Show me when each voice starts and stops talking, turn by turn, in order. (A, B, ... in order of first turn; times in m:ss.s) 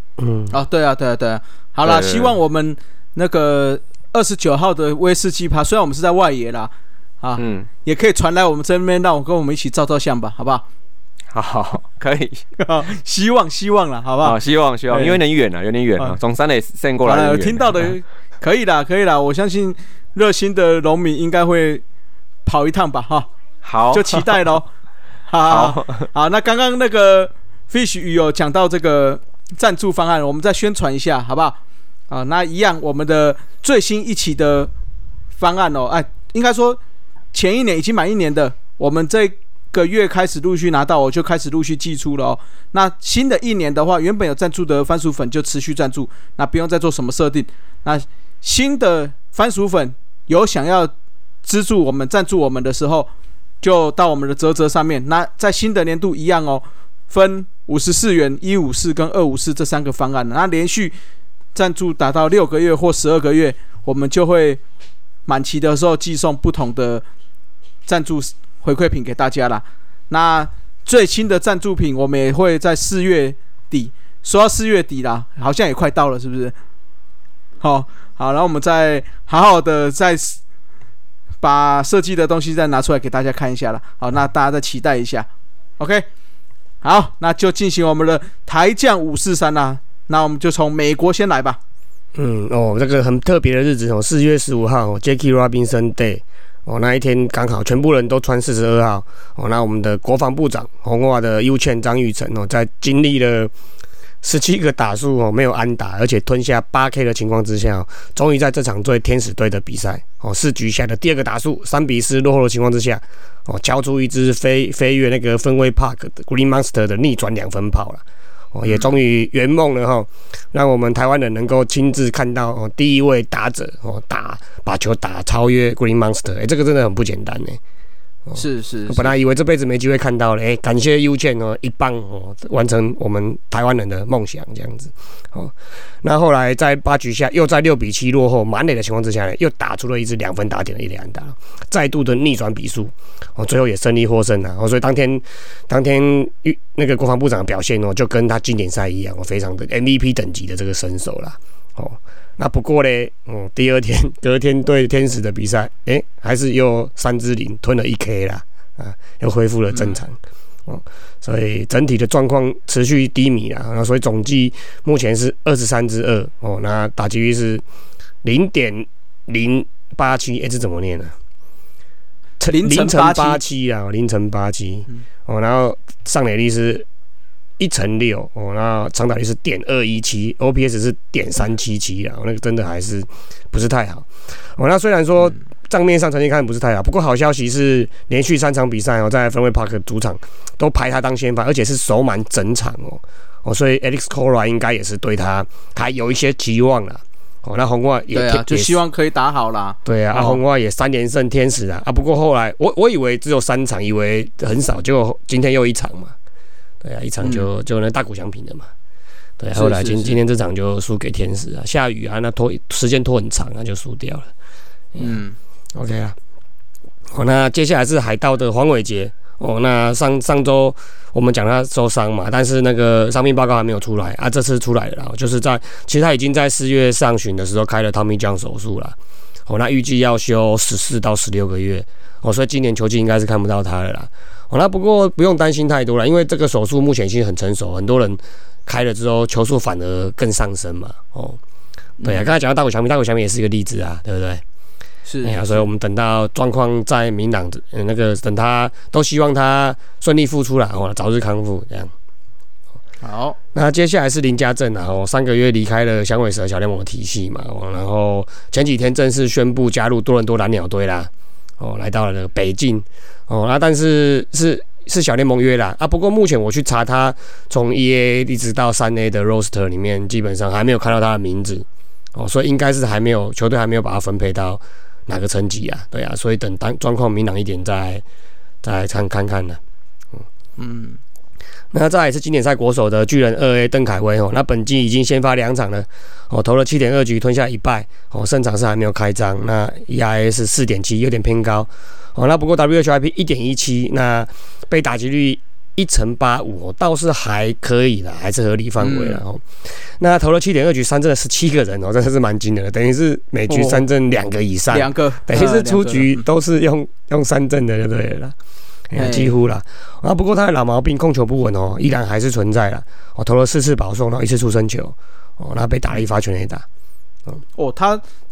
0:00.2-0:00.5 A
0:00.5-0:10.6 B
0:01.8-0:02.3 C
0:07.4-0:07.7 C
0:11.3-0:12.4 C
0:12.6-0:14.4 B
0:14.2-0:17.8 C
0:14.9-0:15.2 B
0:17.0-0:21.8 B
0:22.4-0:23.3 B
0:23.6-0:24.3 C
0:23.9-0:24.7 B
0:25.3-0:31.6 B
0:25.5-0:26.1 C
0:32.1-0:34.7 B
0:35.4-0:36.8 B
0:37.3-0:50.9 B
0:51.4-0:53.1 B
0:53.6-1:00.9 B
1:01.5-1:04.6 B
1:05.3-1:07.0 B
1:07.9-1:16.5 B
1:17.6-1:20.4 B
1:21.4-1:25.3 B
1:25.8-1:26.0 B
1:26.8-1:31.6 B
1:32.1-1:43.5 A
1:44.2-1:58.0 A
1:58.5-2:07.6 A
2:08.3-2:47.6 A
2:08.4-2:09.1 B
2:39.7-2:40.0 B
2:48.2-2:51.1 A
2:52.4-2:56.8 A
2:52.5-2:53.4 B
2:57.6-3:18.8 A
3:18.1-3:20.4 B
3:19.8-3:26.1 A
3:26.8-3:28.7 A
3:27.2-3:27.5 B
3:29.4-3:34.3 A
3:29.5-3:30.2 B
3:34.9-3:35.2 A
3:35.0-3:35.4 B
3:35.7-3:36.2 A
3:37.1-3:49.0 A
3:49.5-4:01.4 A
4:02.0-4:02.2 B
4:02.0-4:04.4 A
4:05.0-4:05.7 B
4:05.2-4:11.9 A
4:13.0-4:13.4 B
4:13.5-4:38.0 A
4:38.6-4:39.6 A
4:40.6-4:41.0 B
4:41.7-5:08.3 A
4:58.8-4:59.2 B
5:03.5-5:03.9 B
5:04.7-5:06.2 B
5:08.9-5:16.6 A
5:09.0-5:09.3 B
5:17.6-5:18.0 B